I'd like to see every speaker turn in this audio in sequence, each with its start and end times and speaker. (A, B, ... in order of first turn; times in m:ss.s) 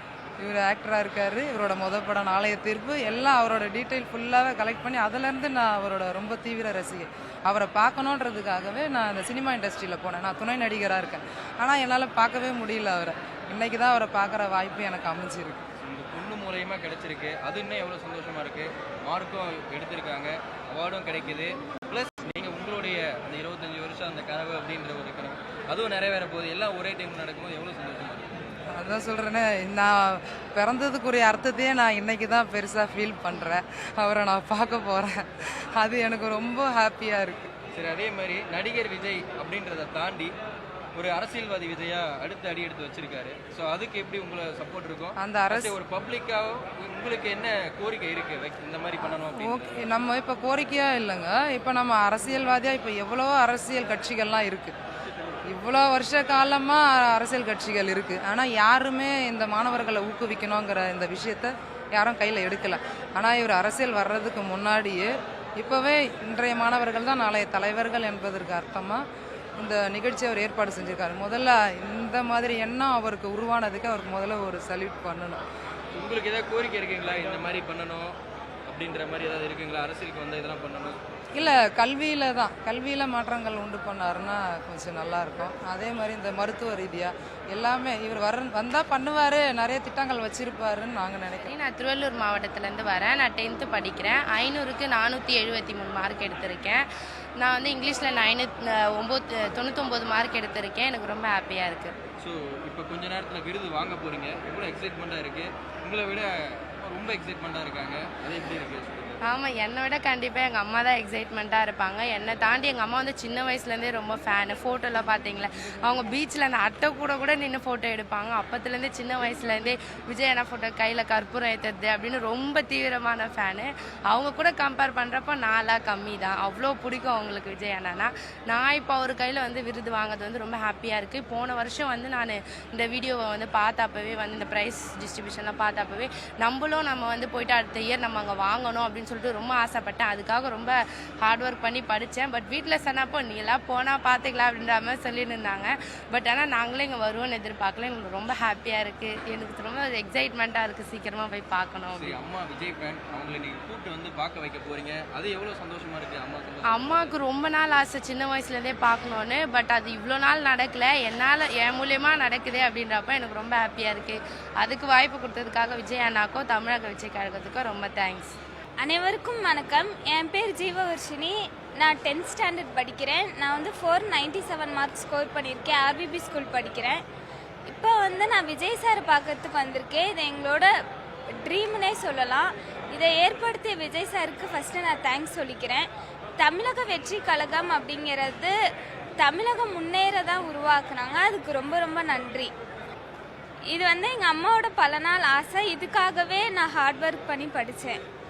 0:00.4-0:15.6 A
0:15.8-0:28.3 B
0:28.7-0:37.5 A
0:37.7-0:40.3 B
0:41.0-0:49.9 B
0:45.2-0:45.8 A
0:49.3-0:54.8 A
0:55.5-1:09.0 A
1:09.6-1:15.4 A
1:15.9-1:21.0 B
1:21.4-1:31.5 A
1:31.5-1:36.9 C
1:37.4-1:42.0 C
1:42.2-1:49.2 B
1:49.2-2:32.2 C
2:32.0-2:37.2 B
2:36.7-2:48.4 C
2:48.8-2:57.0 D
2:57.7-3:00.7 D
3:01.4-3:05.9 D
3:06.4-3:08.5 D
3:09.2-3:12.5 D
3:13.7-3:18.0 D